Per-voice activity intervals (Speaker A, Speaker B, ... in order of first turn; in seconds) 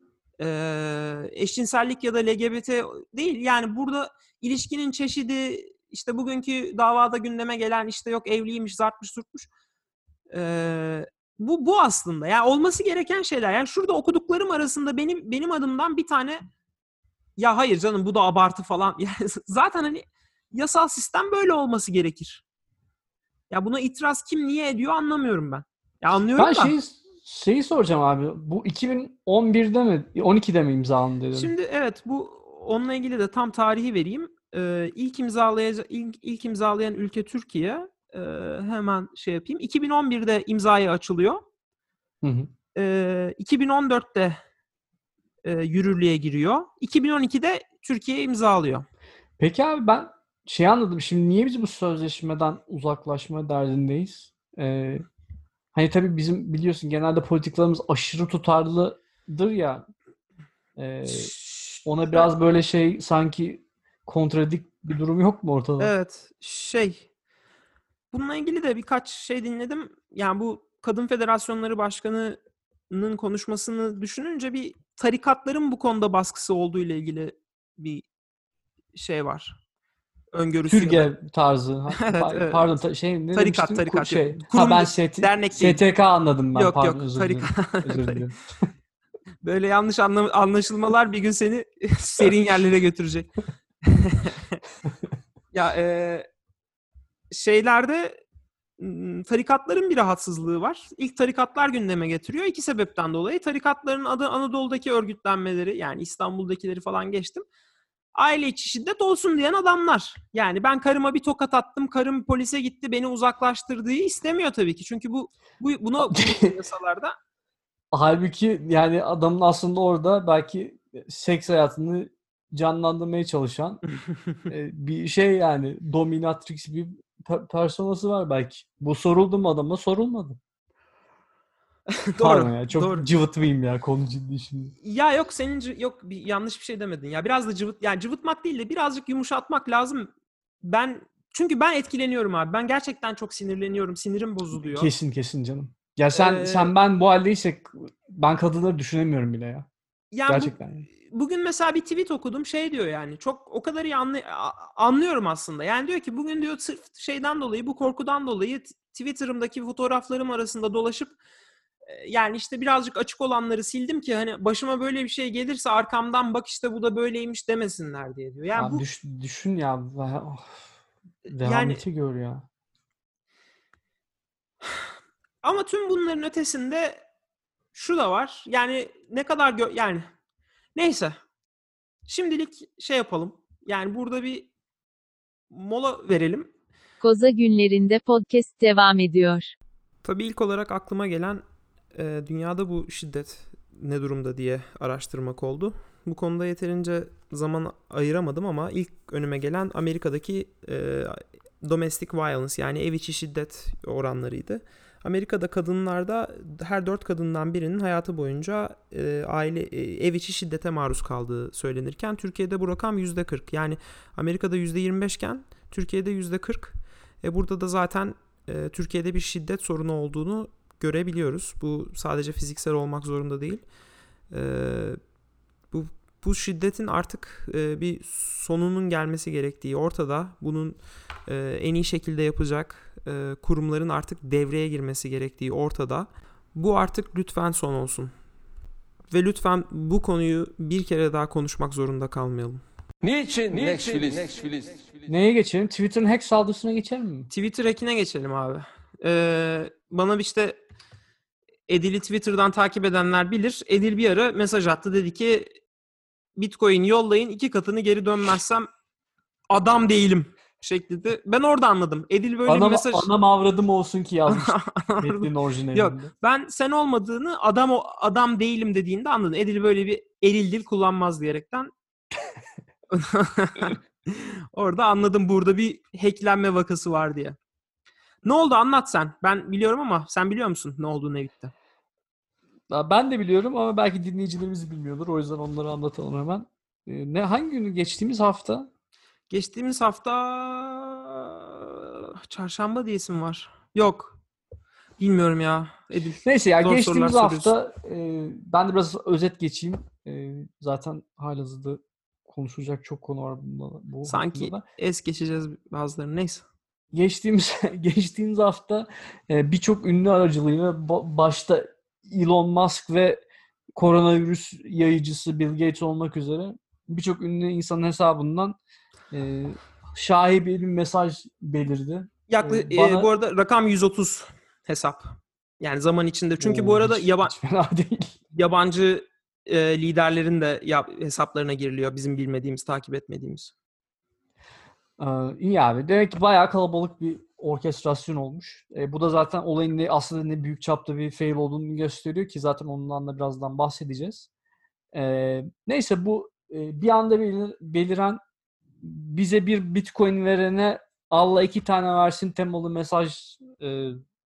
Speaker A: 0.4-9.5, 10.3-16.4, 17.4-22.4, 23.5-26.8, 31.3-41.4, 42.8-44.4, 45.4-48.9, 61.1-62.2, 65.8-67.1, 68.1-72.4, 72.9-78.0, 78.9-79.6, 80.3-81.1, 82.0-82.7, 83.3-85.8, 86.5-88.3, 89.4-93.3, 93.8-94.6, 95.5-96.3, 97.3-98.2, 98.8-107.5, 108.2-117.2, 131.9-133.1, 134.8-140.1, 140.6-144.9, 146.1-146.7, 150.1-161.1, 161.9-168.8, 171.3-171.8, 175.4-177.0, 177.7-180.1, 180.8-181.2, 182.1-184.5, 185.5-186.5, 190.0-191.4, 191.9-223.7, 224.3-225.0, 225.7-238.1, 239.1-242.6, 247.3-250.6, 251.7-255.5, 256.4-258.7, 259.5-263.1, 264.3-271.7, 272.9-277.4, 278.2-281.5, 289.3-294.2, 295.0-297.5, 304.1-306.5, 322.3-327.3, 328.3-333.5
Speaker B: 26.4-31.5, 42.2-42.5, 49.4-55.0, 55.7-59.9, 60.8-61.3, 61.8-65.9, 80.7-88.4, 116.0-116.5, 117.9-123.8, 124.5-130.4, 132.2-134.8, 144.6-149.7, 150.3-150.9, 168.6-170.6, 171.3-172.5, 245.1-247.3, 262.5-266.1, 282.7-288.7, 296.2-304.6, 306.9-313.2, 313.8-318.6, 319.1-323.1, 326.4-328.1, 335.0-344.3, 344.9-348.2, 348.8-354.0
Speaker C: 187.0-189.5
Speaker D: 243.0-245.1